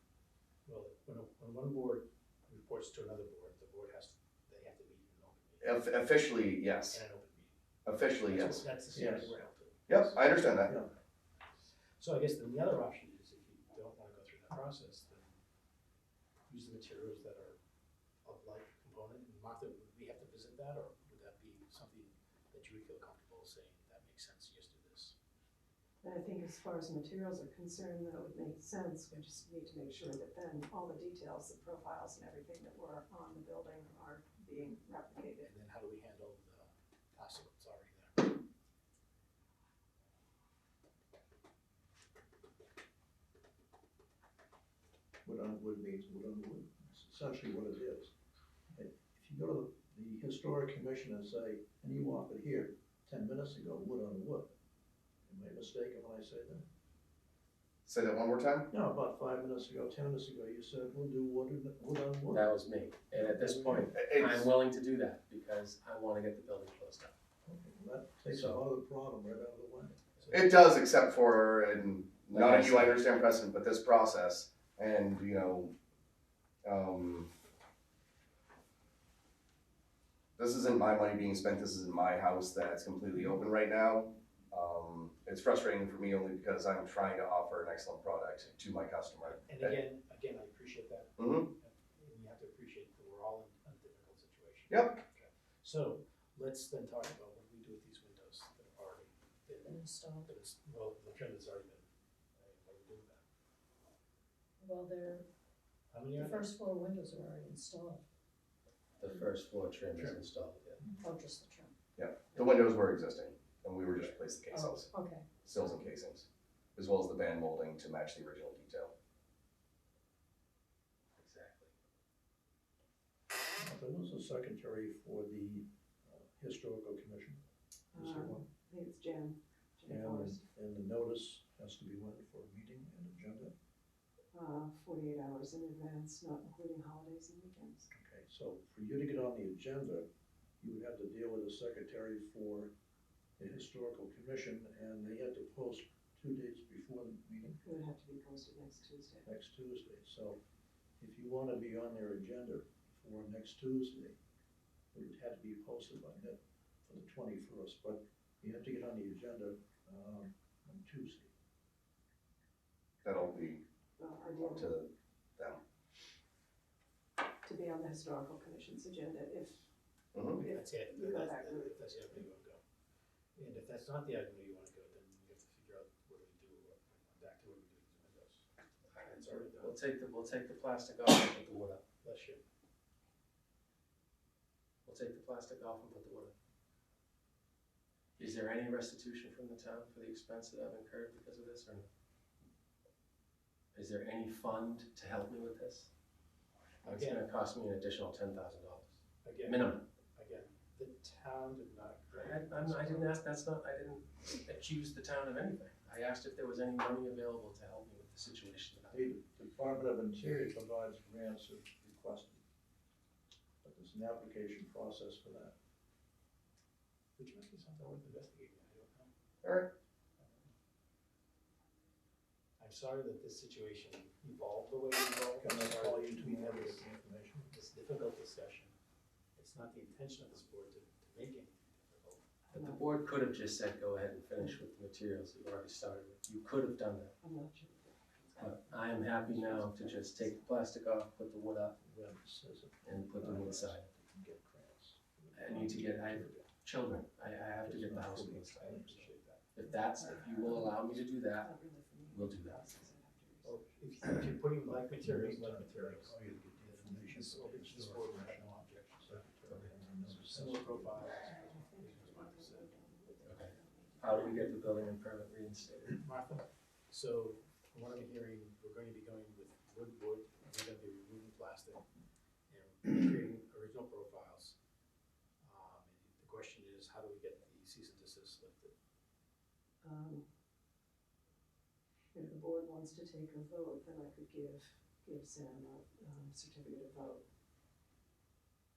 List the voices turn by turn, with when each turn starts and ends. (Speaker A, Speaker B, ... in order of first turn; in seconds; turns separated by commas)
Speaker A: 0.7-5.7, Speaker B: 5.6-7.0, Speaker A: 6.9-7.6, Speaker B: 7.8-8.6, Speaker A: 8.2-10.2, Speaker C: 8.9-9.3, Speaker B: 9.9-10.7, Speaker C: 10.6-10.9, Speaker A: 12.0-15.3, Speaker A: 16.5-17.6, Speaker A: 18.2-25.1, Speaker D: 26.0-35.5, Speaker A: 35.4-38.4, Speaker C: 45.2-48.1, Speaker C: 48.7-54.5, Speaker C: 55.2-56.6, Speaker B: 57.9-58.7, Speaker C: 58.7-62.5, Speaker E: 62.3-67.1, Speaker C: 63.1-63.9, Speaker B: 63.9-64.5, Speaker C: 67.5-70.0, Speaker A: 68.3-68.6, Speaker B: 70.3-75.7, Speaker E: 72.3-73.0, Speaker B: 76.6-77.3, Speaker B: 80.4-89.8, Speaker A: 89.2-103.2, Speaker B: 91.2-91.5, Speaker B: 94.7-95.0, Speaker F: 99.6-100.3, Speaker F: 104.6-105.3, Speaker A: 105.9-106.5, Speaker F: 106.2-108.0, Speaker E: 109.0-110.8, Speaker F: 111.0-111.7, Speaker B: 112.0-118.9, Speaker F: 114.5-115.3, Speaker E: 121.2-121.7, Speaker C: 123.6-127.4, Speaker C: 127.9-128.5, Speaker D: 127.9-130.4, Speaker C: 129.9-133.5, Speaker D: 134.3-137.9, Speaker C: 137.9-140.1, Speaker C: 140.6-142.7, Speaker C: 143.4-147.6, Speaker D: 147.6-149.3, Speaker C: 149.2-150.4, Speaker C: 151.0-154.2, Speaker C: 154.9-161.3, Speaker B: 163.0-163.6, Speaker D: 164.0-164.8, Speaker B: 164.4-165.6, Speaker D: 167.4-169.7, Speaker B: 170.1-170.5, Speaker D: 170.4-171.8, Speaker A: 170.4-172.6, Speaker A: 173.4-178.4, Speaker E: 178.9-181.8, Speaker A: 179.0-179.8, Speaker A: 182.0-182.4, Speaker E: 184.8-186.3, Speaker E: 188.2-191.9, Speaker E: 193.7-195.9, Speaker A: 196.8-197.2, Speaker E: 196.8-199.8, Speaker A: 199.2-203.2, Speaker E: 202.1-209.1, Speaker C: 208.9-212.4, Speaker C: 213.6-215.5, Speaker A: 217.2-219.1, Speaker B: 219.4-219.7, Speaker A: 220.2-220.5, Speaker A: 222.6-226.8, Speaker C: 225.4-227.5, Speaker A: 227.5-228.7, Speaker A: 229.4-232.2, Speaker D: 232.5-233.1, Speaker E: 232.5-237.1, Speaker D: 237.2-238.8, Speaker E: 238.4-241.8, Speaker D: 239.6-240.5, Speaker C: 241.8-246.4, Speaker E: 242.8-243.9, Speaker E: 245.3-248.8, Speaker C: 247.6-249.1, Speaker A: 248.6-249.6, Speaker E: 249.6-251.5, Speaker D: 249.7-250.8, Speaker D: 251.4-254.2, Speaker E: 252.1-252.6, Speaker A: 253.4-262.7, Speaker C: 254.9-261.2, Speaker D: 261.1-264.6, Speaker E: 263.2-266.0, Speaker A: 265.9-271.9, Speaker A: 272.5-274.6, Speaker A: 275.4-278.7, Speaker D: 279.8-280.2, Speaker D: 282.1-287.2